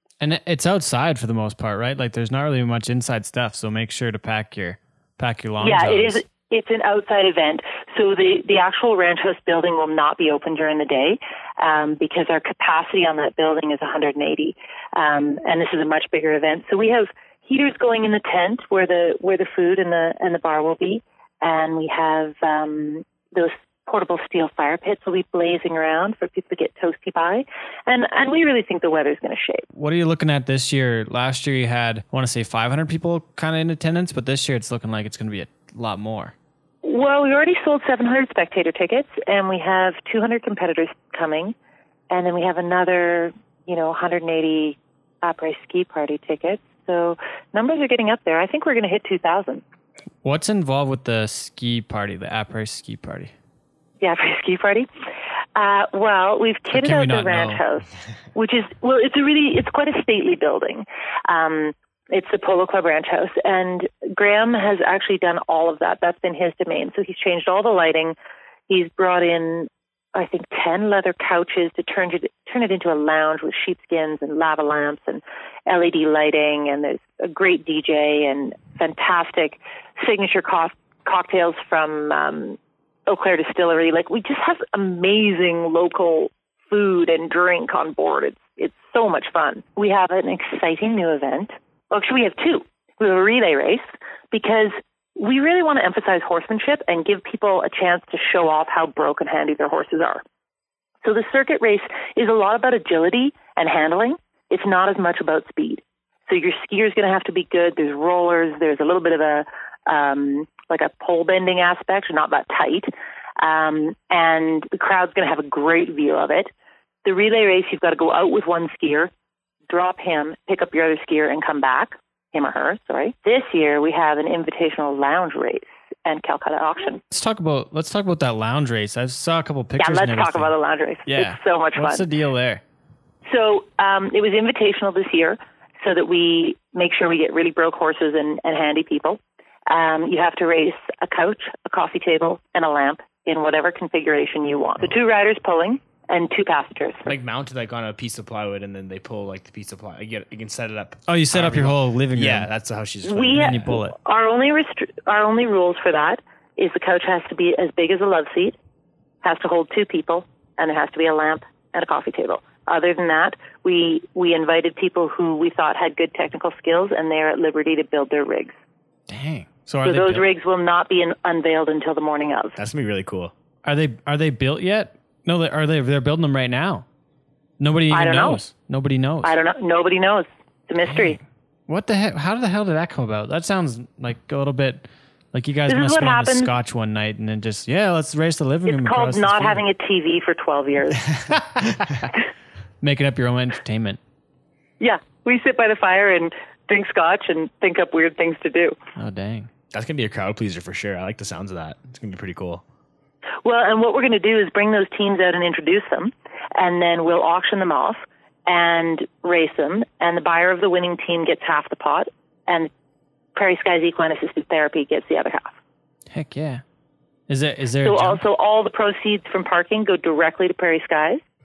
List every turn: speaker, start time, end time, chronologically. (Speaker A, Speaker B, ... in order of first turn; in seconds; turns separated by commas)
Speaker A: 0.2-6.2, Speaker B: 5.6-29.6, Speaker A: 29.7-36.3, Speaker B: 36.8-41.5, Speaker B: 42.1-49.6, Speaker A: 50.2-53.3, Speaker B: 54.0-54.9, Speaker B: 55.5-68.1, Speaker A: 56.7-57.6, Speaker B: 68.7-100.2, Speaker B: 101.0-116.5, Speaker B: 117.0-119.1, Speaker B: 119.7-127.0, Speaker A: 127.1-130.5, Speaker B: 129.8-132.0, Speaker A: 131.1-132.6, Speaker B: 133.3-147.1, Speaker C: 147.1-153.7, Speaker A: 151.1-152.5, Speaker B: 153.1-158.6, Speaker A: 153.3-153.9, Speaker B: 159.2-168.6, Speaker A: 169.1-170.3, Speaker B: 169.8-172.6, Speaker C: 172.6-173.3, Speaker A: 173.6-176.8, Speaker A: 177.6-179.3, Speaker B: 177.9-178.4, Speaker B: 179.2-181.2, Speaker A: 180.9-181.2, Speaker A: 181.7-189.6, Speaker B: 185.7-186.5, Speaker B: 188.7-191.1, Speaker A: 192.8-194.0, Speaker B: 194.8-198.8, Speaker A: 198.9-199.5, Speaker C: 199.7-202.6, Speaker B: 203.4-212.7, Speaker B: 213.3-215.6, Speaker A: 216.1-216.6, Speaker A: 217.3-218.2, Speaker B: 217.8-221.2